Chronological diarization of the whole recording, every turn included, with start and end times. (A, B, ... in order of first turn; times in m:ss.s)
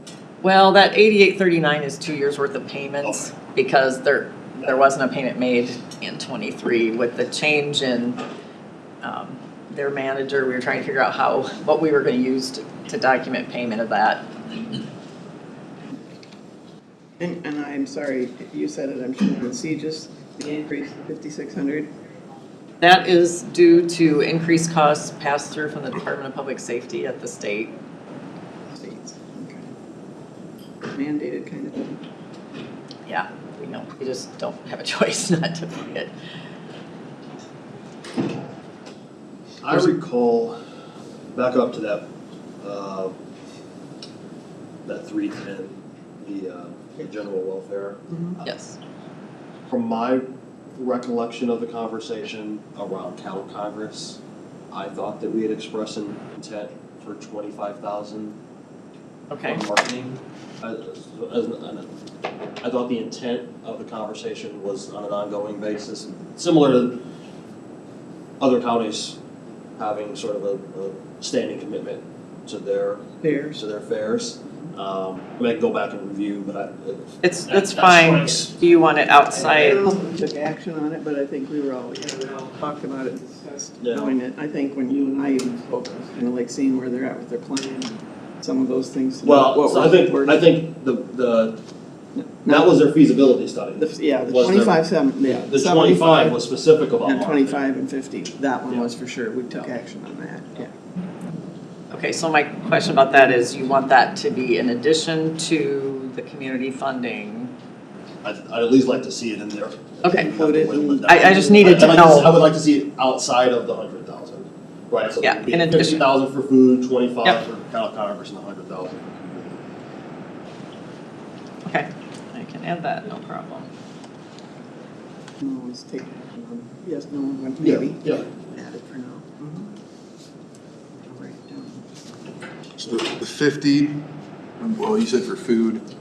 0:00.4-0:08.2 A
0:03.0-0:03.3 B
0:09.0-0:14.8 A
0:17.2-0:21.9 C
0:22.8-0:27.7 A
0:28.7-0:29.7 C
0:30.9-0:32.0 C
0:33.0-0:36.1 A
0:39.6-0:40.6 B
0:41.3-0:42.1 B
0:42.6-0:43.2 B
0:44.8-0:48.4 B
0:48.4-0:48.8 A
0:49.7-0:50.2 B
0:50.8-0:54.2 B
0:54.7-0:58.4 B
0:59.3-0:59.6 A
0:59.4-1:01.9 B
1:02.6-1:07.0 B
1:08.4-1:09.2 B
1:09.8-1:18.6 B
1:13.2-1:13.6 C
1:17.2-1:19.8 A
1:19.4-1:30.5 C
1:23.8-1:24.1 B
1:29.2-1:31.6 B
1:32.4-1:32.8 C
1:32.5-1:37.6 B
1:33.8-1:36.4 C
1:37.0-1:40.7 C
1:41.9-1:47.5 A
1:48.2-1:59.7 B
1:50.0-1:50.3 A
1:50.1-1:52.1 C
1:51.0-1:52.4 A
1:55.2-1:56.0 A
2:01.6-2:03.7 A
2:05.4-2:09.7 C
2:07.6-2:08.2 B
2:11.1-2:12.0 C
2:12.9-2:14.0 D
2:14.7-2:15.8 D